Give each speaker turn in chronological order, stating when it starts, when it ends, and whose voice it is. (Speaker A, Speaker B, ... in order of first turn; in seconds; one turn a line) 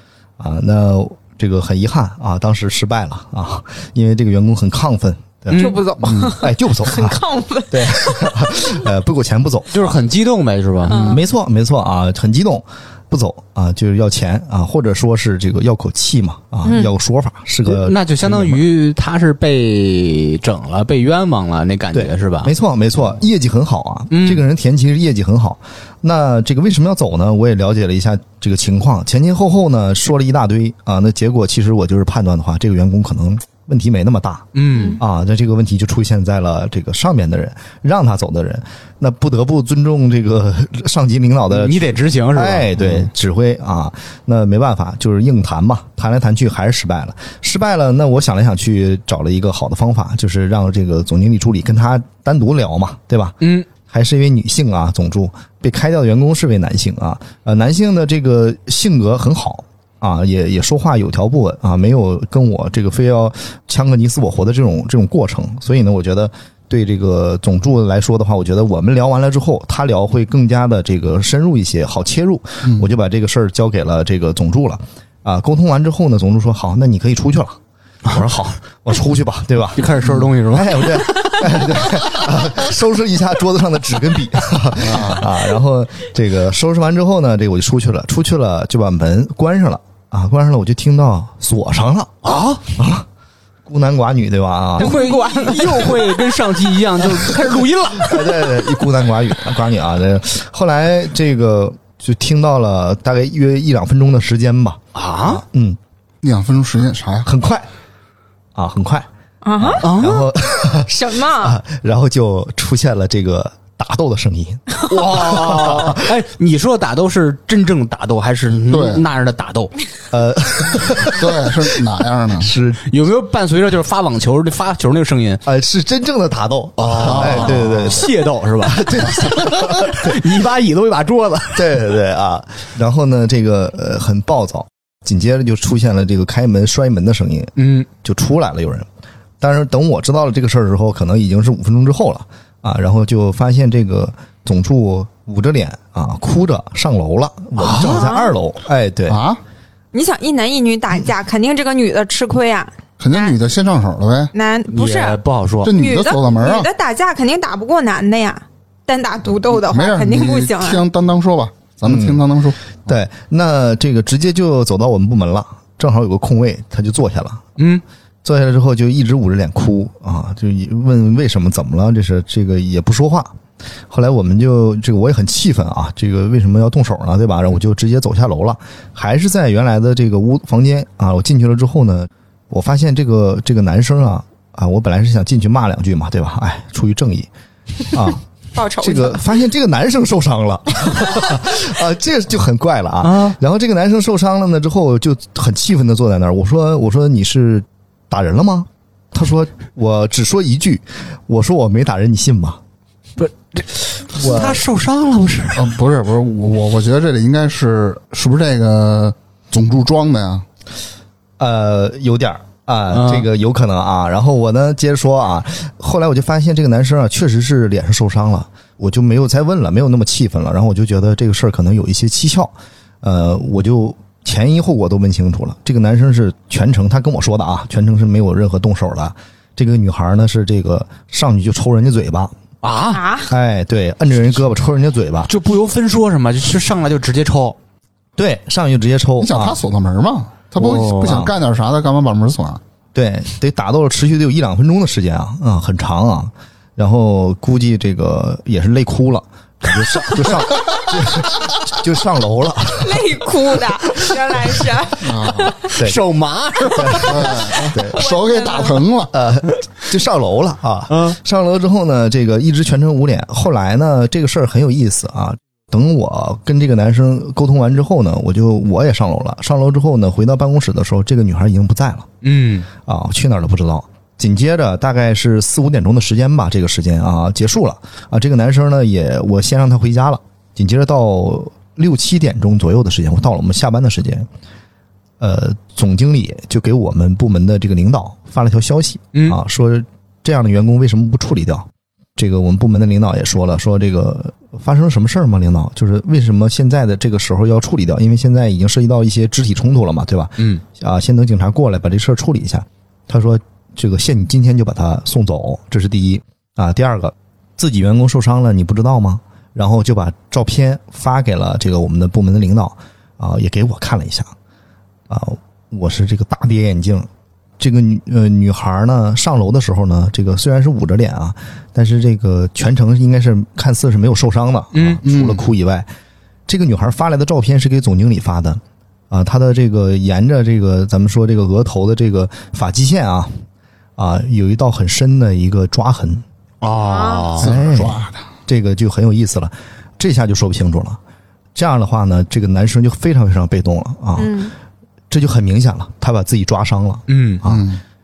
Speaker A: 0.4-9.9
Speaker B: 5.5-6.3
Speaker C: 5.5-8.7
Speaker B: 9.7-11.2
Speaker C: 10.9-11.2
Speaker A: 10.9-18.6
Speaker C: 16.6-16.9
Speaker B: 17.7-22.5
Speaker A: 21.9-92.2
Speaker B: 24.1-24.4
Speaker B: 34.5-35.0
Speaker C: 34.7-35.0
Speaker B: 41.5-43.1
Speaker B: 53.4-53.7
Speaker B: 79.8-82.1
Speaker B: 84.8-85.2
Speaker B: 92.2-92.7
Speaker A: 92.7-93.1
Speaker A: 93.7-95.1
Speaker B: 94.8-98.6
Speaker C: 94.8-96.1
Speaker A: 97.9-105.8
Speaker B: 104.9-105.4
Speaker D: 106.2-107.3
Speaker A: 107.2-107.7
Speaker A: 108.5-109.1
Speaker C: 109.4-110.1
Speaker A: 109.6-116.1
Speaker B: 109.8-110.2
Speaker C: 110.8-111.6
Speaker B: 114.9-119.7
Speaker D: 118.7-119.0
Speaker A: 120.1-121.6
Speaker D: 121.0-122.5
Speaker A: 122.4-122.9
Speaker B: 122.9-125.4
Speaker A: 125.5-130.2
Speaker B: 126.8-131.8
Speaker D: 127.0-127.7
Speaker A: 131.5-138.9
Speaker B: 137.6-137.9
Speaker A: 139.4-149.2
Speaker B: 147.6-148.1
Speaker C: 147.8-148.3
Speaker D: 149.1-149.4
Speaker C: 149.9-153.3
Speaker D: 153.0-154.3
Speaker C: 154.3-155.2
Speaker B: 154.7-155.7
Speaker D: 155.6-156.7
Speaker C: 155.7-160.8
Speaker D: 159.5-162.6
Speaker A: 161.8-162.2
Speaker A: 162.8-167.4
Speaker B: 167.6-167.8
Speaker A: 168.2-173.3
Speaker A: 173.9-187.3
Speaker A: 187.9-188.2
Speaker C: 188.5-189.3
Speaker A: 188.8-202.6
Speaker B: 193.0-193.4
Speaker B: 203.2-205.8
Speaker A: 204.2-204.6
Speaker D: 205.6-210.4
Speaker A: 211.4-232.3
Speaker B: 212.9-213.3
Speaker B: 232.6-233.0
Speaker C: 232.9-233.3
Speaker A: 233.3-235.3
Speaker B: 235.3-237.6
Speaker A: 238.2-239.6
Speaker D: 239.2-242.6
Speaker B: 240.6-241.2
Speaker A: 241.0-241.3
Speaker A: 242.9-253.2
Speaker C: 252.7-255.7
Speaker D: 255.0-255.5
Speaker B: 255.7-257.6
Speaker A: 256.8-258.0
Speaker D: 257.1-259.2
Speaker C: 257.9-258.8
Speaker A: 259.1-272.1
Speaker B: 260.9-261.2
Speaker B: 272.2-272.7
Speaker A: 272.9-284.3
Speaker A: 285.2-314.3
Speaker B: 300.4-300.6
Speaker A: 315.1-325.9
Speaker B: 324.7-325.0
Speaker D: 325.0-325.4
Speaker A: 326.5-333.4
Speaker A: 334.0-336.2
Speaker B: 336.6-337.5
Speaker C: 336.8-337.3
Speaker D: 337.4-338.2
Speaker A: 337.4-341.0
Speaker A: 341.6-344.4
Speaker C: 344.2-344.5
Speaker A: 345.1-347.7
Speaker B: 347.1-347.4
Speaker D: 347.5-347.8